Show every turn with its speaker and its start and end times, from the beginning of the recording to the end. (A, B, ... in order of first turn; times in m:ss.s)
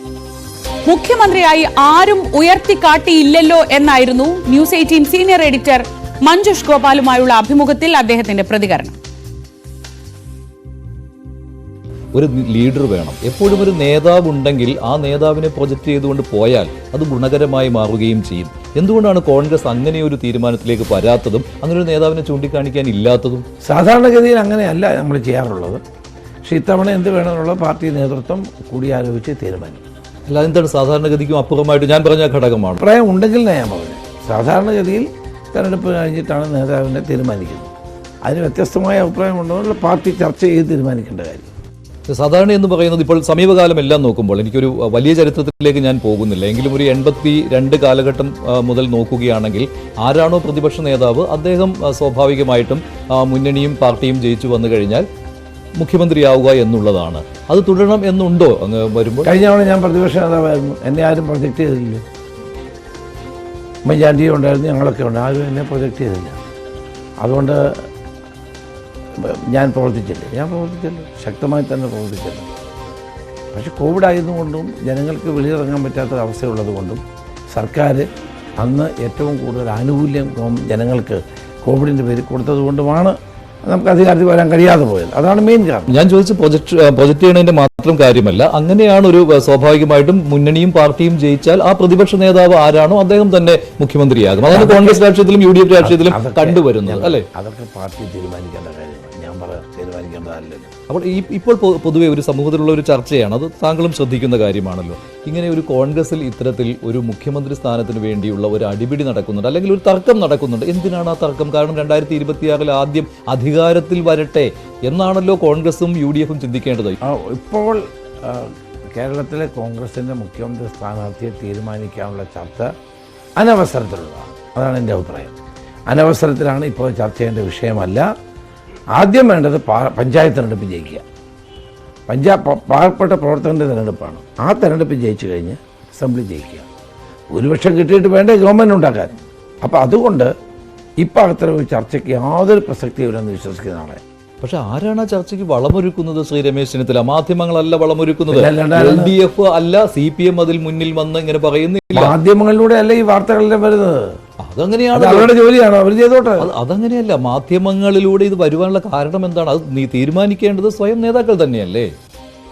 0:00.9-0:09.0 A
0:12.1-0:23.5 B
0:23.6-0:25.8 C
0:26.4-0:29.8 C
0:30.3-0:32.8 B
0:32.8-0:37.7 C
0:38.2-0:41.5 C
0:42.1-0:55.1 B
0:55.8-0:59.3 B
0:59.2-1:02.0 C
1:03.8-1:06.4 C
1:07.2-1:07.9 C
1:09.2-1:12.5 C
1:13.5-1:17.0 C
1:17.5-1:18.0 C
1:18.6-1:23.1 C
1:23.6-1:26.0 C
1:25.9-1:37.3 B
1:34.5-1:35.0 C
1:35.8-1:40.7 C
1:40.9-1:57.0 B
1:57.0-2:02.7 C
2:03.4-2:05.4 C
2:05.9-2:08.1 C
2:09.0-2:11.0 C
2:12.1-2:16.7 C
2:17.3-2:20.3 C
2:21.0-2:24.0 C
2:24.4-2:32.2 B
2:28.3-2:29.2 C
2:31.9-2:34.2 C
2:34.4-2:35.3 B
2:34.9-2:36.5 C
2:36.4-2:41.9 B